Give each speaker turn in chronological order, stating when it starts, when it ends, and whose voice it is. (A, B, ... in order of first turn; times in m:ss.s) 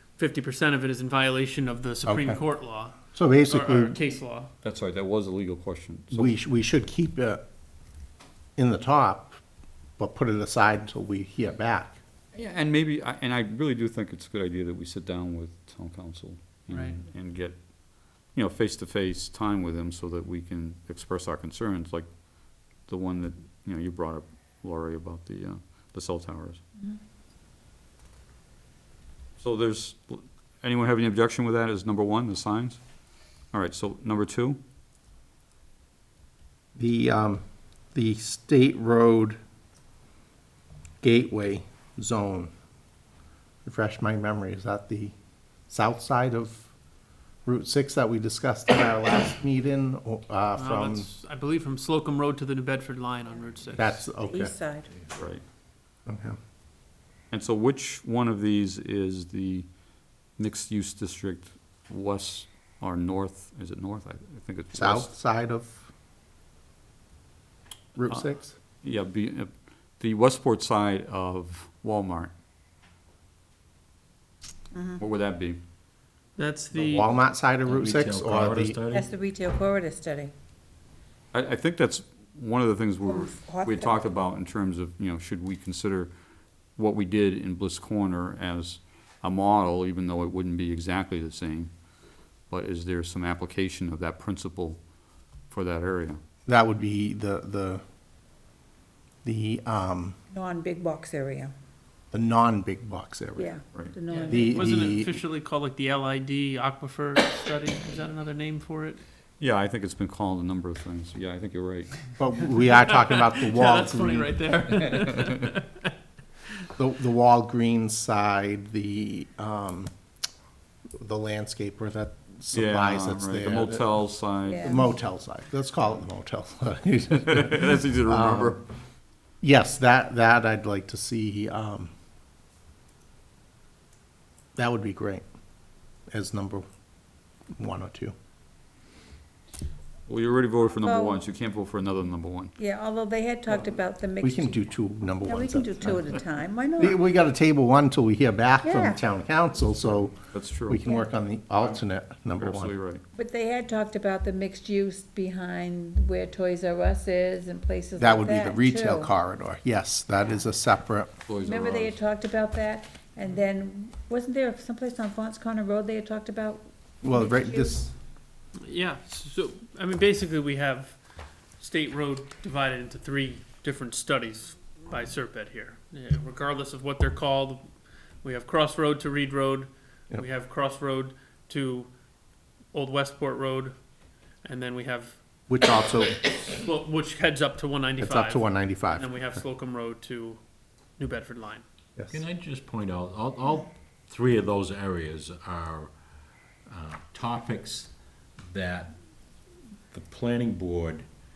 0:00.2-0:04.5 A
0:02.0-0:02.4 B
0:03.0-0:04.0 B
0:04.6-0:06.4 C
0:06.1-0:07.4 B
0:08.6-0:09.4 B
0:10.0-0:12.0 B
0:12.3-0:17.6 C
0:16.7-0:17.0 A
0:18.2-0:22.1 C
0:22.8-0:26.6 C
0:29.4-0:32.8 C
0:33.5-0:34.6 C
0:36.8-0:37.4 B
0:37.9-0:39.4 B
0:41.0-0:42.5 B
0:43.6-0:45.1 B
0:45.7-0:46.7 B
0:47.4-0:51.1 B
0:50.6-0:54.0 A
0:53.8-0:54.5 B
0:54.2-0:54.9 D
0:55.2-0:55.4 C
0:56.0-0:56.4 B
0:57.3-0:59.7 C
1:00.4-1:05.1 C
1:04.7-1:05.9 B
1:08.0-1:08.6 B
1:08.8-1:12.3 C
1:14.7-1:15.0 D
1:15.0-1:15.6 C
1:16.4-1:17.1 A
1:16.7-1:18.8 B
1:17.6-1:19.0 E
1:18.9-1:20.3 D
1:21.3-1:26.1 C
1:23.0-1:24.1 D
1:26.8-1:31.7 C
1:32.5-1:34.8 C
1:35.5-1:36.2 C
1:36.5-1:37.8 B
1:39.2-1:40.2 B
1:40.3-1:41.5 D
1:42.1-1:43.5 B
1:43.4-1:44.6 D
1:44.1-1:49.0 A
1:44.3-1:45.1 B
1:49.4-1:52.1 C
1:52.2-1:54.4 B
1:52.8-1:55.9 A
1:56.8-1:59.9 B
2:01.0-2:03.8 B
2:02.5-2:04.8 C
2:04.4-2:05.0 D
2:04.6-2:08.6 B
2:07.2-2:08.6 C
2:09.4-2:11.9 B
2:14.6-2:15.2 B
2:16.1-2:16.6 B
2:17.6-2:18.1 B
2:20.1-2:22.5 C
2:20.8-2:21.2 D
2:22.6-2:24.7 D
2:24.2-2:26.1 B
2:25.2-2:27.0 D
2:26.8-2:32.7 B
2:28.6-2:29.0 D
2:30.3-2:30.8 C
2:32.4-2:33.0 C
2:33.1-2:39.1 D
2:38.0-2:41.1 B
2:41.3-2:42.0 C
2:41.4-2:47.8 D
2:47.0-2:47.9 B
2:48.6-2:51.0 A
2:51.6-2:57.6 A
2:58.2-3:01.9 A
3:02.7-3:03.7 A
3:04.4-3:05.2 A
3:05.5-3:06.2 B
3:06.1-3:10.4 A
3:08.0-3:09.4 B
3:11.0-3:11.6 A
3:12.1-3:15.9 E
3:16.7-3:17.9 E
3:18.5-3:18.9 E
3:19.9-3:21.0 E